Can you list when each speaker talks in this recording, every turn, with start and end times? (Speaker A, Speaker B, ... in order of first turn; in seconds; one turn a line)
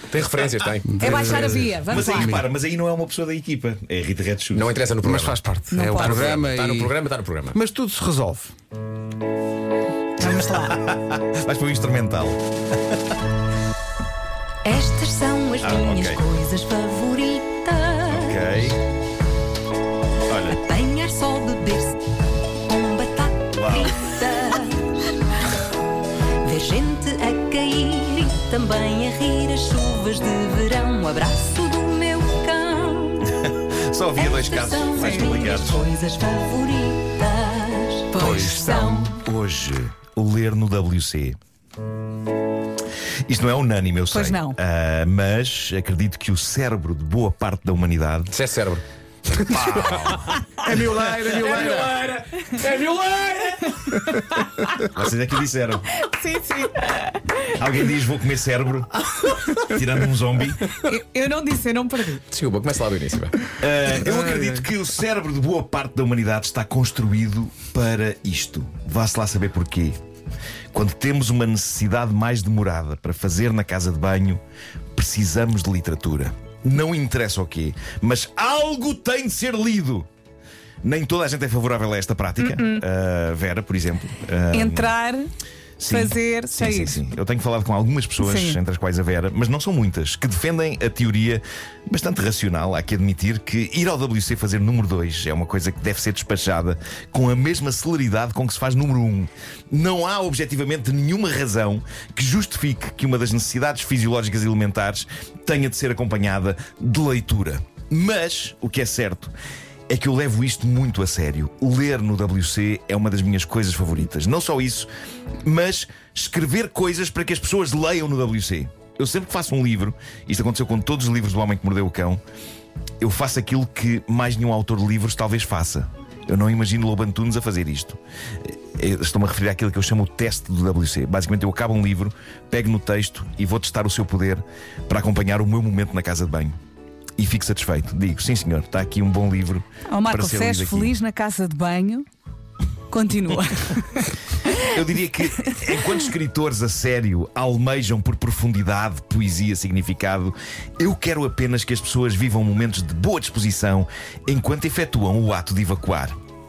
Speaker A: 0.1-1.5
Speaker B: 0.9-2.3
Speaker C: 1.0-2.4
Speaker D: 1.9-4.8
Speaker A: 4.5-7.6
Speaker B: 5.0-6.9
Speaker C: 5.7-6.3
Speaker B: 7.5-8.5
Speaker C: 10.2-10.7
Speaker D: 10.2-12.4
Speaker E: 14.6-18.4
Speaker D: 15.6-16.2
Speaker D: 18.1-18.8
Speaker D: 20.3-20.6
Speaker E: 20.5-22.0
Speaker E: 22.7-25.1
Speaker D: 23.5-23.9
Speaker E: 26.4-33.3
Speaker D: 33.3-35.9
Speaker E: 34.1-39.2
Speaker C: 35.0-35.4
Speaker C: 38.1-39.0
Speaker B: 38.2-38.9
Speaker D: 39.0-41.4
Speaker D: 43.3-48.4
Speaker C: 44.1-44.6
Speaker A: 48.3-50.4
Speaker D: 49.5-50.4
Speaker B: 49.5-50.0
Speaker B: 50.6-52.0
Speaker A: 51.1-53.8
Speaker C: 53.9-54.8
Speaker D: 54.9-56.0
Speaker C: 56.0-57.5
Speaker D: 57.5-60.8
Speaker C: 60.8-62.2
Speaker A: 62.3-63.5
Speaker D: 63.6-69.9
Speaker D: 70.7-74.4
Speaker D: 74.9-80.1
Speaker D: 80.8-85.0
Speaker C: 82.4-82.8
Speaker C: 84.5-85.3
Speaker D: 85.8-109.3
Speaker C: 85.9-87.0
Speaker C: 88.2-88.6
Speaker D: 109.9-114.9
Speaker D: 115.4-122.2
Speaker D: 123.0-136.5
Speaker D: 137.2-140.9
Speaker C: 139.9-142.1
Speaker C: 142.9-144.7
Speaker D: 144.7-156.1